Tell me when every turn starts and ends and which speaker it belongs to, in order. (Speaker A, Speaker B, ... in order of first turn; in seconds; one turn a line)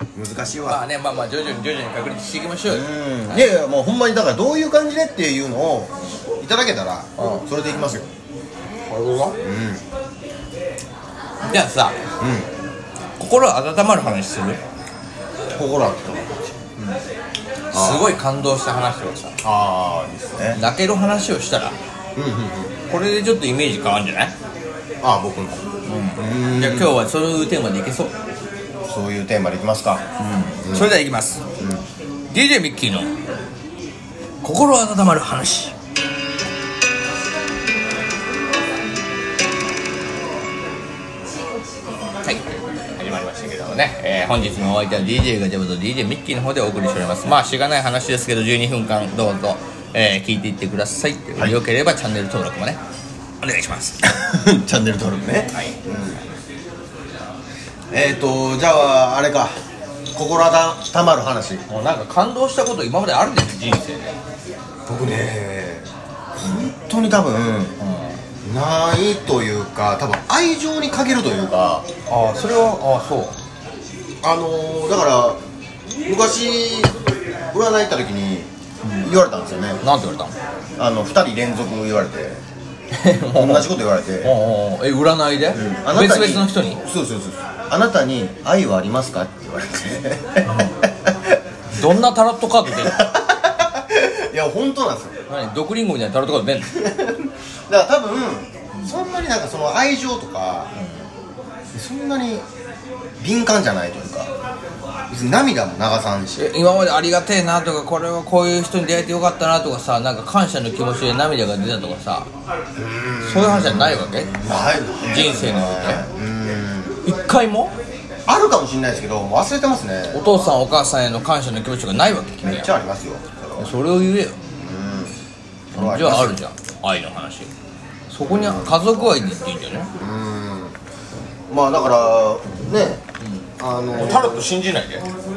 Speaker A: 0.1-0.8
Speaker B: 0.6-3.5
Speaker A: 2.6-8.1
Speaker B: 7.2-7.4
Speaker B: 8.9-9.4
Speaker A: 9.4-9.8
Speaker B: 11.4-12.0
Speaker A: 12.2-12.5
Speaker B: 13.2-14.6
Speaker A: 15.6-16.4
Speaker B: 17.7-19.4
Speaker A: 17.7-18.2
Speaker A: 19.4-20.6
Speaker B: 20.5-21.8
Speaker A: 22.1-22.7
Speaker B: 22.9-24.3
Speaker A: 25.0-26.9
Speaker B: 25.9-28.2
Speaker A: 28.9-31.0
Speaker B: 30.2-31.4
Speaker A: 31.6-31.8
Speaker B: 32.3-33.1
Speaker B: 34.4-35.7
Speaker B: 42.2-52.8
Speaker B: 53.4-54.0
Speaker A: 54.0-56.2
Speaker A: 57.9-59.5
Speaker A: 60.1-61.6
Speaker B: 61.7-64.2
Speaker A: 64.9-67.8
Speaker B: 67.8-68.2
Speaker A: 68.4-71.8
Speaker B: 72.1-73.3
Speaker A: 74.2-75.4
Speaker A: 76.0-77.0
Speaker A: 77.5-79.8
Speaker B: 79.8-80.3
Speaker A: 80.8-82.4
Speaker B: 82.9-83.7
Speaker A: 83.3-84.3
Speaker B: 84.2-86.8
Speaker A: 85.5-91.3
Speaker B: 90.5-90.8
Speaker B: 91.7-93.0
Speaker A: 92.6-95.1
Speaker B: 95.3-96.8
Speaker A: 96.7-100.7
Speaker B: 100.8-101.1
Speaker A: 101.7-102.4
Speaker A: 103.2-104.3
Speaker A: 105.1-106.5
Speaker B: 106.4-112.3
Speaker A: 112.8-117.0
Speaker B: 113.2-114.4
Speaker B: 115.0-116.0
Speaker B: 117.0-117.7
Speaker A: 118.3-120.2
Speaker B: 120.1-122.7
Speaker A: 122.4-123.7
Speaker B: 123.6-124.4
Speaker A: 124.6-125.2
Speaker A: 125.7-126.4
Speaker B: 125.8-127.5
Speaker B: 128.1-129.9
Speaker A: 128.2-129.0
Speaker A: 130.0-130.8
Speaker A: 131.5-133.0
Speaker B: 133.2-135.1
Speaker A: 133.6-134.5